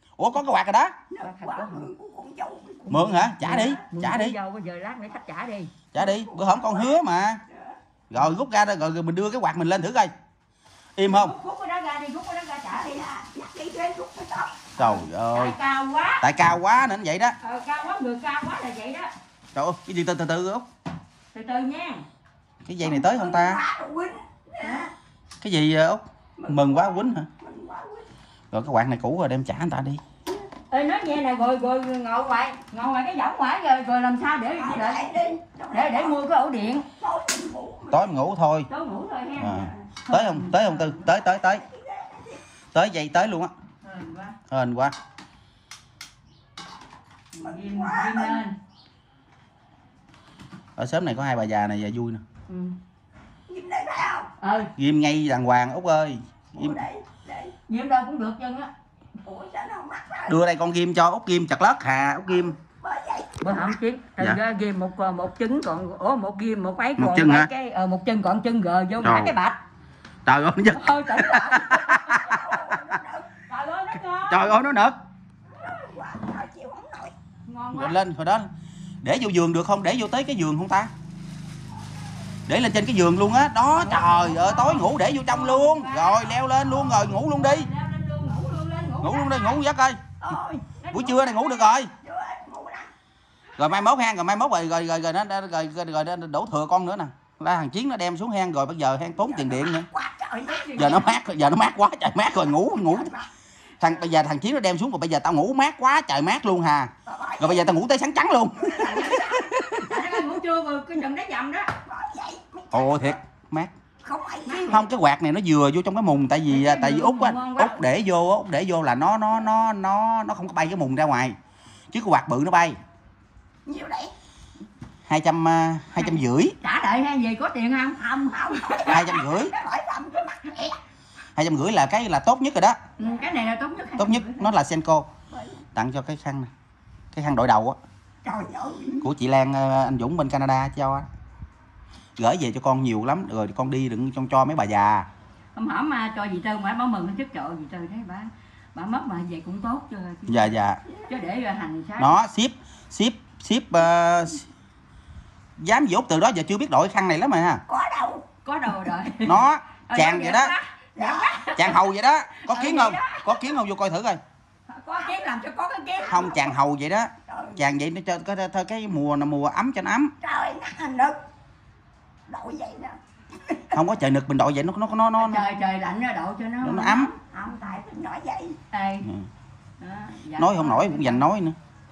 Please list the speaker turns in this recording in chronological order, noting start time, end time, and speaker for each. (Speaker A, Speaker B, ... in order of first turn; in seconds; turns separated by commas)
Speaker A: 0.2-1.0, Speaker B: 1.1-2.9, Speaker C: 1.2-1.9, Speaker C: 2.9-5.8, Speaker A: 2.9-4.4, Speaker A: 5.9-7.4, Speaker B: 6.0-7.8, Speaker A: 8.1-10.1, Speaker A: 11.0-11.3, Speaker C: 11.1-13.1, Speaker B: 12.7-14.7, Speaker A: 14.8-15.6, Speaker C: 14.8-16.3, Speaker A: 16.2-17.4, Speaker C: 17.4-19.1, Speaker A: 19.6-20.7, Speaker C: 21.3-22.1, Speaker A: 22.6-23.6, Speaker B: 22.8-24.9, Speaker C: 24.6-24.9, Speaker A: 25.4-27.3, Speaker B: 26.4-28.1, Speaker A: 28.5-30.0, Speaker C: 30.7-35.1, Speaker B: 34.6-36.2, Speaker C: 35.7-36.9, Speaker B: 37.0-38.2, Speaker A: 37.9-38.7, Speaker C: 38.7-41.1, Speaker A: 39.4-41.6, Speaker B: 41.1-42.4, Speaker A: 42.7-43.5, Speaker C: 43.8-44.4, Speaker A: 44.5-44.9, Speaker C: 47.3-48.5, Speaker B: 47.4-48.5, Speaker A: 50.8-52.2, Speaker C: 52.5-52.8, Speaker B: 53.5-54.3, Speaker C: 54.4-54.7, Speaker A: 54.8-56.8, Speaker B: 56.5-57.5, Speaker C: 57.7-58.7, Speaker B: 59.2-60.4, Speaker A: 60.3-62.5, Speaker B: 62.3-63.8, Speaker C: 63.4-69.6, Speaker A: 67.0-67.5, Speaker A: 69.0-69.3, Speaker A: 70.3-72.8, Speaker C: 70.7-72.4, Speaker B: 72.2-73.3, Speaker C: 73.5-74.7, Speaker A: 74.3-75.0, Speaker B: 75.6-77.1, Speaker C: 77.5-78.0, Speaker A: 77.7-78.5, Speaker A: 79.0-80.9, Speaker A: 82.5-87.7, Speaker C: 83.7-89.6, Speaker A: 89.0-90.0, Speaker B: 90.2-90.7, Speaker C: 90.8-91.3, Speaker A: 90.9-91.9, Speaker B: 92.0-92.9, Speaker A: 93.6-99.9, Speaker B: 99.2-101.0, Speaker C: 100.5-101.2, Speaker A: 100.7-103.1, Speaker B: 102.4-103.3, Speaker A: 103.8-110.1, Speaker B: 107.1-107.8, Speaker B: 108.7-109.5, Speaker C: 109.7-111.7, Speaker B: 111.8-113.2, Speaker A: 112.7-113.7, Speaker B: 114.0-114.9, Speaker A: 114.6-121.4, Speaker C: 116.5-117.8, Speaker A: 121.9-122.8, Speaker B: 123.7-124.1, Speaker A: 125.1-126.5, Speaker C: 126.0-129.0, Speaker B: 128.1-130.8, Speaker A: 128.9-129.6, Speaker A: 131.4-132.8, Speaker B: 133.0-133.3, Speaker C: 133.0-134.5, Speaker A: 134.0-135.1, Speaker B: 135.3-135.7, Speaker A: 135.8-136.5, Speaker A: 137.1-137.8, Speaker B: 138.2-139.1, Speaker A: 139.0-141.1, Speaker A: 142.2-145.1, Speaker C: 145.6-150.5, Speaker A: 150.3-150.8, Speaker C: 151.1-152.2, Speaker A: 152.0-154.5, Speaker A: 155.6-157.6, Speaker B: 157.7-158.2, Speaker C: 158.4-161.8, Speaker A: 159.2-160.5, Speaker B: 161.0-161.6, Speaker A: 161.5-164.2, Speaker C: 162.3-163.5, Speaker C: 164.7-166.5, Speaker B: 166.1-166.4, Speaker A: 166.1-170.1, Speaker B: 167.3-167.6, Speaker B: 170.2-171.2, Speaker B: 172.3-173.8, Speaker A: 173.7-175.4, Speaker C: 175.2-177.2, Speaker A: 176.6-177.1, Speaker B: 177.3-178.6, Speaker C: 178.7-179.1, Speaker C: 179.8-181.2, Speaker A: 180.4-181.6